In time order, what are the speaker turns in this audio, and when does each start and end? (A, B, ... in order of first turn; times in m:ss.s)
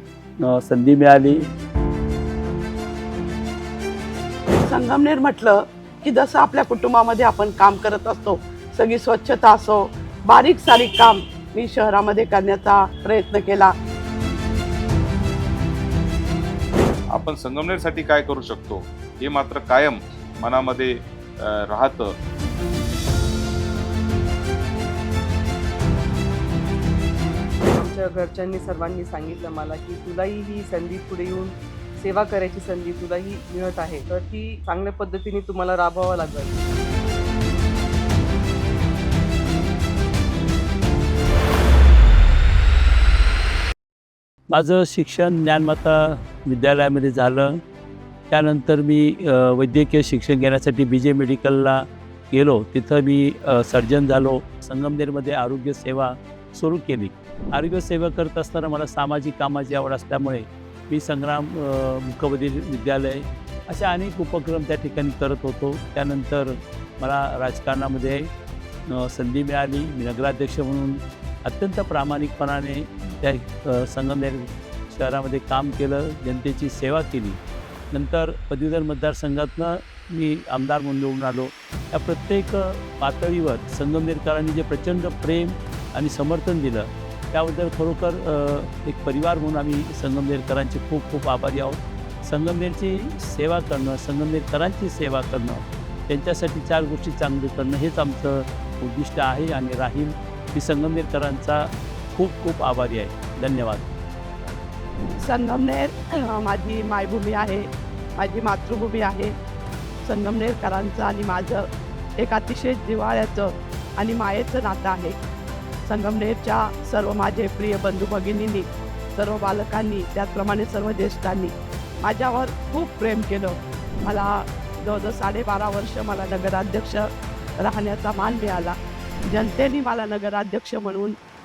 0:00.4-0:01.4 A
0:04.7-0:13.7 B
0:17.1-0:22.1 C
0:27.7-0:36.5 D
0:44.5-0:47.6 A
0:48.3-0:51.8 A
0:52.3-1:06.5 A
1:07.0-1:08.2 A
1:09.0-1:17.4 A
1:17.9-1:43.9 A
1:45.2-1:49.3 B
1:50.0-1:51.6 B
1:52.2-1:55.2 B
1:55.9-2:01.5 B
2:02.0-2:07.1 B
2:07.6-2:08.8 B
2:09.3-2:11.2 B